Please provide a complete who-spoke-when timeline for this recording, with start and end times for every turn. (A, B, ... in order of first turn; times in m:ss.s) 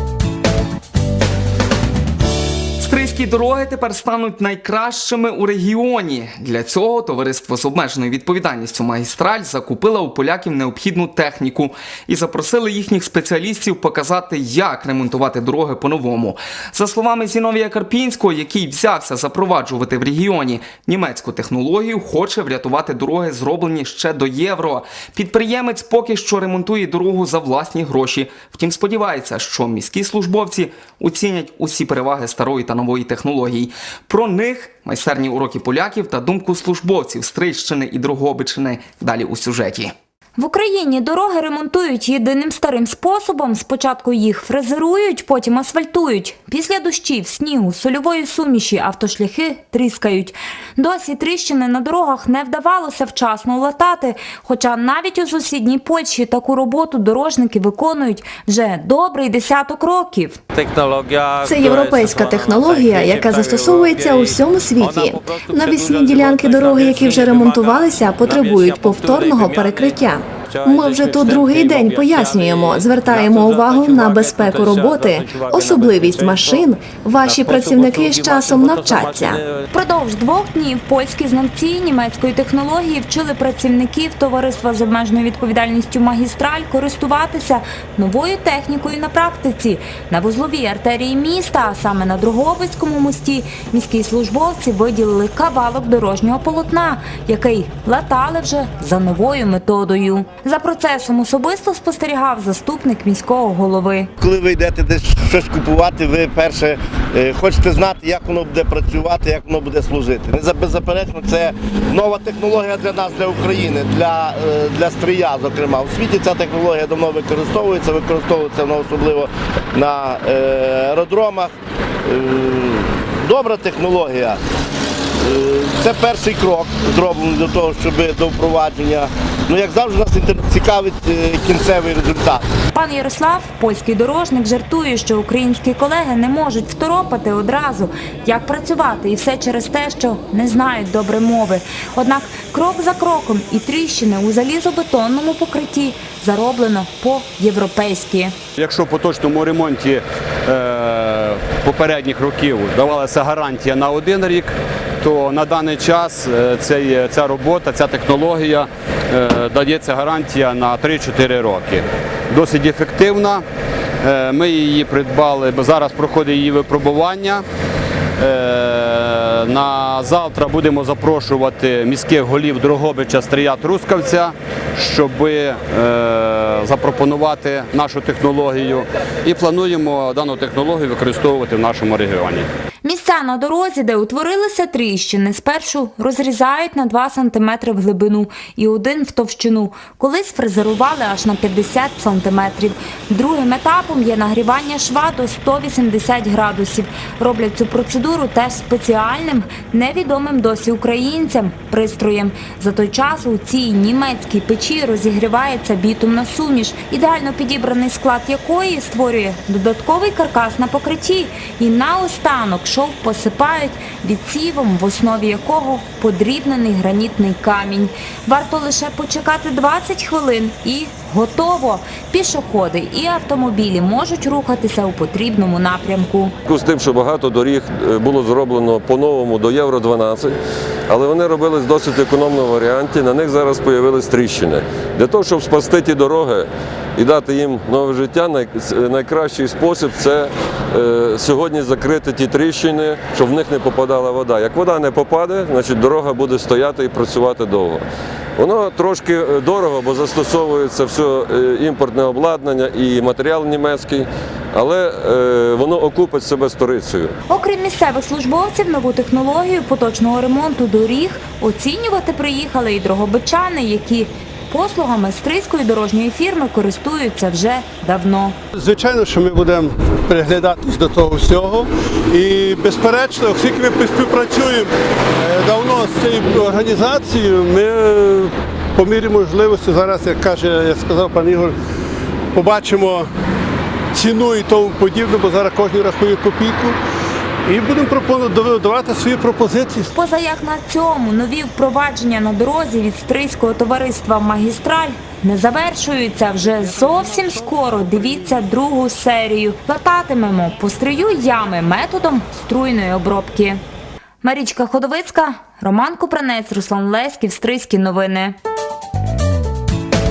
0:02.8-0:39.9 A
0:40.4-1:00.4 B
1:00.6-1:04.3 C
1:01.4-1:19.4 D
1:04.9-1:16.2 C
1:17.4-1:19.6 C
1:19.7-1:44.1 B
1:44.2-2:01.5 E
2:02.0-2:04.4 E
2:05.2-2:12.5 E
2:12.7-2:28.4 B
2:28.6-2:43.4 F
2:44.0-2:47.4 F
2:48.2-3:02.5 F
3:02.8-3:46.4 B
3:46.5-3:50.4 G
3:50.9-4:07.8 G
4:08.4-4:17.1 G
4:17.3-4:28.4 B
4:28.5-4:41.6 H
4:42.3-4:43.1 H
4:43.9-4:46.8 H
4:47.5-4:49.9 H
4:49.9-5:03.6 B
5:04.2-5:08.4 B